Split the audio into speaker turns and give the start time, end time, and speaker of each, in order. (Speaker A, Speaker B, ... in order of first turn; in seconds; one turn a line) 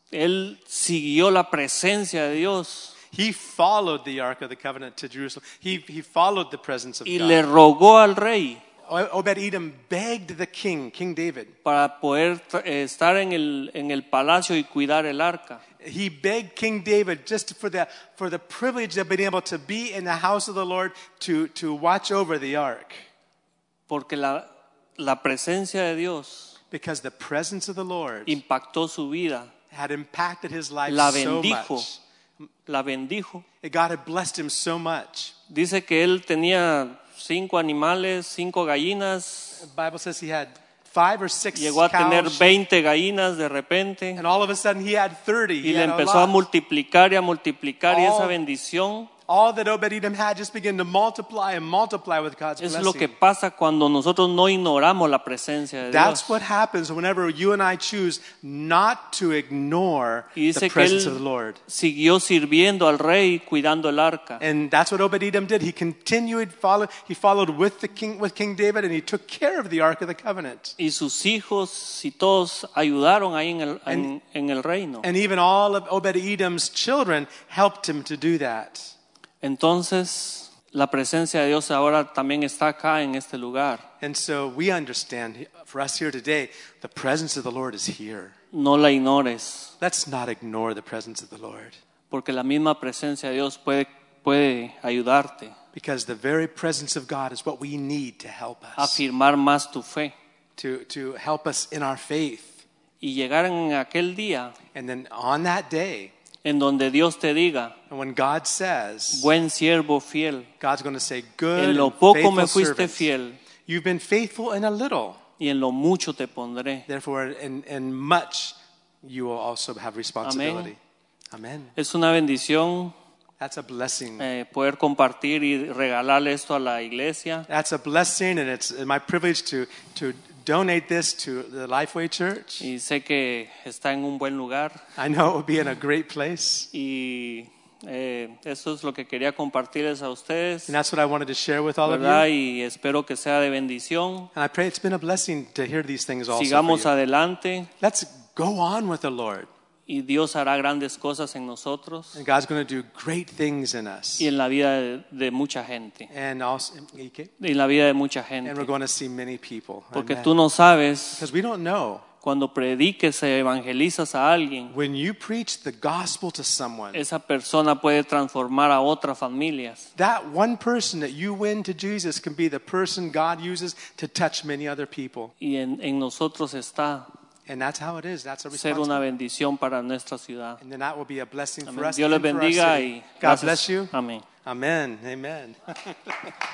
Speaker A: 0.1-3.0
Speaker B: 3.1-7.4
Speaker A: 7.1-8.6
Speaker B: 8.9-11.5
Speaker A: 11.6-15.6
Speaker B: 15.8-23.0
Speaker A: 23.9-24.5
Speaker A: 25.0-26.6
Speaker B: 26.7-28.4
Speaker A: 28.3-29.5
Speaker B: 29.7-32.0
Speaker A: 30.9-31.9
Speaker A: 32.7-33.4
Speaker B: 33.6-35.3
Speaker A: 35.5-39.6
Speaker B: 39.6-42.6
Speaker A: 41.5-44.2
Speaker B: 44.2-46.4
Speaker A: 45.6-49.1
Speaker B: 47.9-48.4
Speaker B: 49.3-53.1
Speaker A: 52.6-56.4
Speaker B: 55.9-61.6
Speaker A: 60.4-64.4
Speaker B: 64.4-70.8
Speaker A: 70.8-75.1
Speaker B: 75.0-78.9
Speaker A: 79.4-83.8
Speaker B: 84.0-88.3
Speaker A: 88.5-89.7
Speaker B: 89.8-91.8
Speaker A: 92.1-95.5
Speaker B: 95.7-99.0
Speaker A: 98.8-100.1
Speaker B: 100.6-102.6
Speaker A: 103.0-104.5
Speaker B: 104.8-106.1
Speaker A: 106.4-107.8
Speaker B: 107.9-109.3
Speaker A: 109.1-110.5
Speaker B: 110.6-113.1
Speaker A: 111.6-113.4
Speaker B: 113.7-115.2
Speaker A: 115.4-116.9
Speaker B: 116.9-120.8
Speaker A: 120.2-120.7
Speaker B: 121.3-121.7
Speaker A: 121.8-122.9
Speaker B: 123.4-124.3
Speaker A: 124.2-127.5
Speaker B: 127.5-132.7
Speaker A: 132.6-134.8
Speaker B: 135.0-136.7
Speaker A: 136.7-140.8
Speaker B: 140.7-142.3
Speaker A: 141.8-144.3
Speaker B: 144.3-146.9
Speaker A: 146.3-147.7
Speaker B: 147.8-149.5
Speaker A: 149.9-152.2
Speaker B: 152.2-154.3
Speaker A: 154.2-156.1
Speaker B: 156.1-157.3
Speaker A: 157.4-158.7
Speaker B: 158.4-160.3
Speaker A: 159.9-161.3
Speaker B: 161.2-162.0
Speaker A: 162.2-164.7
Speaker B: 164.7-167.0
Speaker A: 166.9-169.9
Speaker B: 170.0-175.3
Speaker A: 175.4-177.1
Speaker B: 177.5-179.1
Speaker A: 178.5-180.6
Speaker B: 180.6-183.9
Speaker A: 181.7-184.2
Speaker B: 184.4-186.3